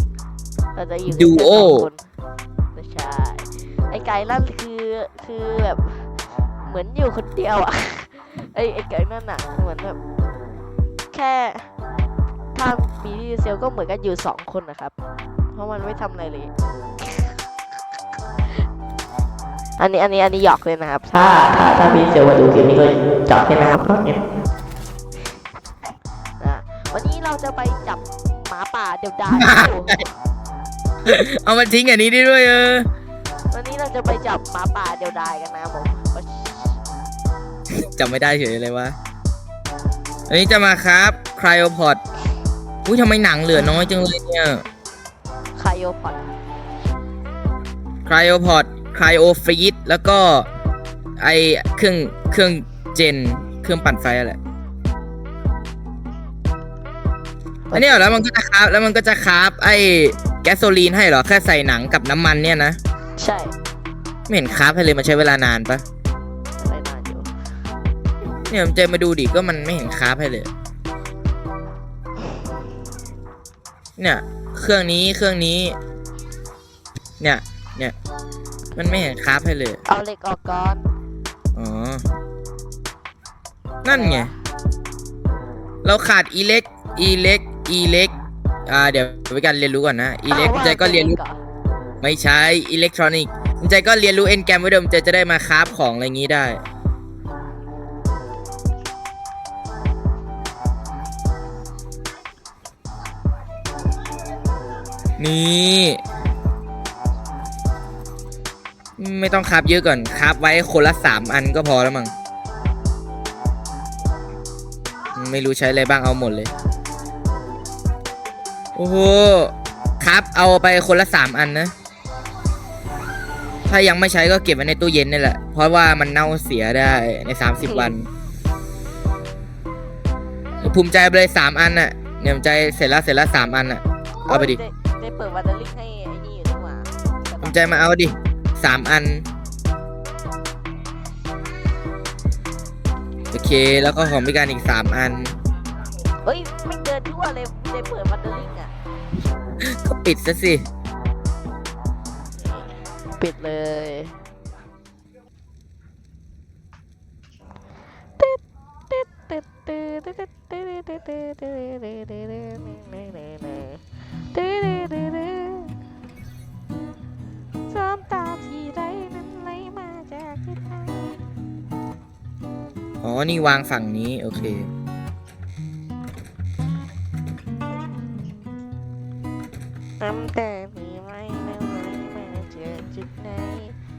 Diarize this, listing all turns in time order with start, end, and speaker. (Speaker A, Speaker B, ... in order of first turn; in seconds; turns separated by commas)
Speaker A: 0.8-2.1, Speaker B: 1.1-1.9, Speaker A: 2.8-10.0, Speaker A: 11.1-11.7, Speaker A: 12.6-14.9, Speaker A: 15.5-17.4, Speaker A: 19.8-24.2, Speaker A: 26.4-30.0, Speaker B: 29.3-30.0, Speaker B: 31.1-32.9, Speaker A: 33.5-36.8, Speaker B: 37.7-39.0, Speaker B: 40.3-42.0, Speaker B: 42.9-44.6, Speaker A: 43.5-44.0, Speaker A: 45.6-46.3, Speaker B: 48.1-50.5, Speaker B: 51.2-54.4, Speaker A: 57.7-58.1, Speaker B: 57.7-62.8, Speaker A: 63.2-63.5, Speaker B: 64.3-65.8, Speaker A: 66.6-67.3, Speaker B: 68.5-70.5, Speaker B: 74.0-75.8, Speaker B: 77.2-77.9, Speaker B: 78.8-79.8, Speaker A: 79.9-80.8, Speaker B: 81.5-82.0, Speaker B: 83.8-84.3, Speaker A: 83.9-84.3, Speaker B: 85.8-88.1, Speaker B: 88.7-91.2, Speaker A: 90.3-91.4, Speaker B: 92.0-96.6, Speaker B: 105.2-106.0, Speaker B: 109.0-112.1, Speaker B: 115.2-116.5, Speaker B: 118.8-121.7, Speaker B: 123.7-128.1, Speaker A: 127.6-127.9, Speaker B: 130.6-134.6, Speaker A: 134.2-137.9, Speaker B: 137.4-139.2, Speaker B: 143.3-145.4, Speaker A: 146.2-148.7, Speaker B: 149.6-150.6, Speaker A: 152.4-154.2, Speaker A: 158.2-165.8, Speaker A: 167.7-171.2, Speaker B: 173.0-174.7, Speaker A: 180.0-183.8